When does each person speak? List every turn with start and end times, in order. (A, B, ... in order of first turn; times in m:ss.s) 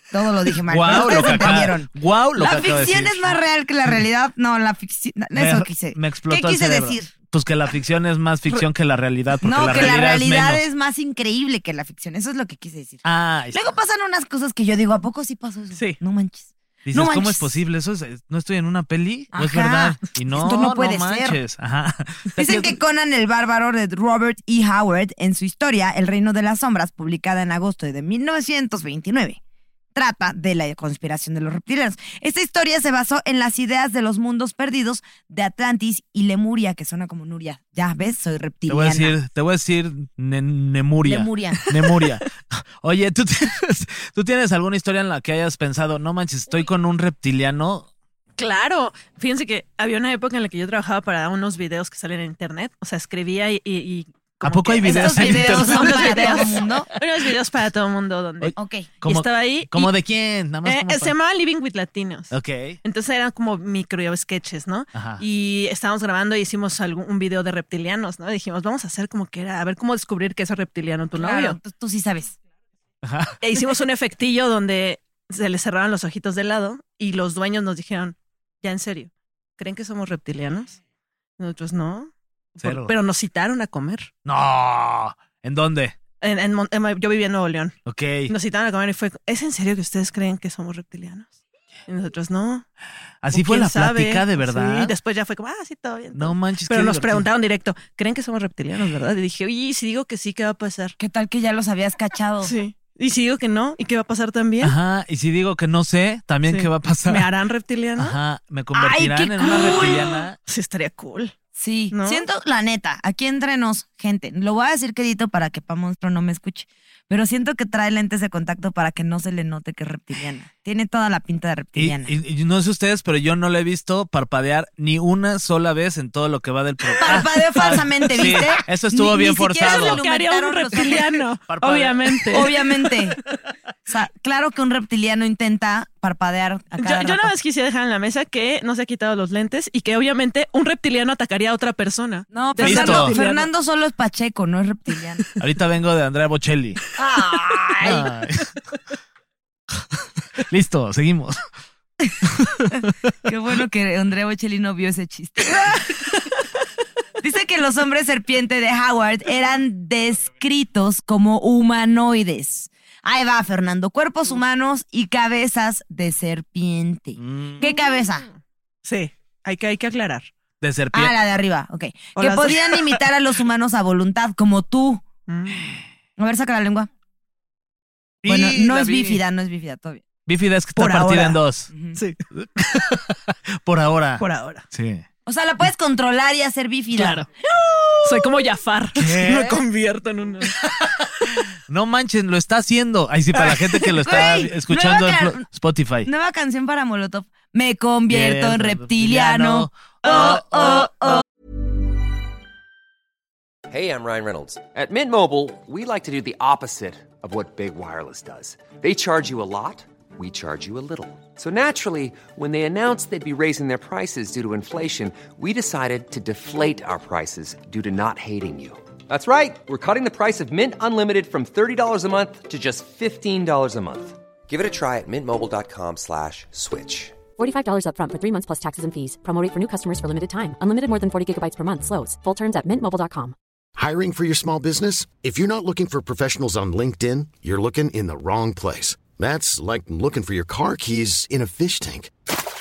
0:00.1-0:07.1 A
0:00.6-0:03.4 B
0:00.9-0:01.6 C
0:05.3-0:10.6 B
0:09.4-0:17.6 A
0:13.0-0:13.6 B
0:15.7-0:16.0 C
0:16.8-0:22.8 B
0:19.3-0:21.4 A
0:22.4-0:29.4 A
0:29.9-0:39.2 A
0:38.7-0:47.9 B
0:41.0-0:41.6 A
0:48.4-0:59.9 C
0:54.4-0:56.6 B
0:54.8-0:56.9 A
0:58.4-1:01.2 B
0:58.6-0:58.9 A
1:00.6-1:11.6 C
1:02.3-1:02.8 B
1:04.9-1:05.2 B
1:11.2-1:12.4 A
1:13.0-1:13.4 B
1:13.4-1:20.7 C
1:21.4-1:24.1 C
1:22.6-1:22.9 B
1:24.2-1:26.0 B
1:26.2-1:27.8 C
1:27.8-1:28.3 B
1:28.3-1:31.3 C
1:31.9-1:32.6 C
1:33.2-1:34.9 B
1:33.3-1:40.9 C
1:36.1-1:37.3 B
1:41.0-1:42.5 A
1:42.4-1:44.7 C
1:44.6-1:47.3 B
1:46.5-1:48.2 C
1:48.0-1:50.4 B
1:48.7-1:50.0 A
1:49.4-1:51.3 C
1:51.6-2:02.1 A
1:51.9-1:52.2 C
2:01.7-2:10.0 B
2:07.0-2:11.1 A
2:09.6-2:12.5 C
2:11.5-2:12.5 B
2:12.3-2:13.2 A
2:13.9-2:17.3 A
2:16.8-2:23.5 C
2:22.3-2:25.2 A
2:22.6-2:23.2 B
2:25.4-2:26.8 B
2:27.0-2:28.1 A
2:27.8-2:28.6 B
2:30.5-2:31.4 B
2:32.2-2:32.9 B
2:33.2-2:35.9 A
2:37.2-2:48.3 A
2:47.2-2:47.6 B
2:47.6-2:48.3 C
2:48.8-2:50.3 C
2:50.6-2:51.2 B
2:50.9-2:55.0 A
2:52.2-2:53.0 C
2:55.3-2:55.7 C
2:56.2-2:56.9 A
2:58.2-2:59.2 B
2:58.2-3:00.0 A
3:00.3-3:01.7 B
3:00.8-3:01.4 C
3:01.7-3:02.0 A
3:02.3-3:05.0 B
3:04.2-3:04.6 C
3:05.2-3:08.0 A
3:07.0-3:07.3 C
3:08.0-3:10.6 C
3:08.9-3:09.6 B
3:10.6-3:10.9 B
3:11.7-3:16.1 B
3:13.4-3:14.0 C
3:14.0-3:15.4 A
3:16.0-3:21.2 A
3:18.1-3:20.4 B
3:20.1-3:20.9 C
3:23.7-3:47.2 D
3:47.4-3:53.3 E
3:53.8-4:02.1 F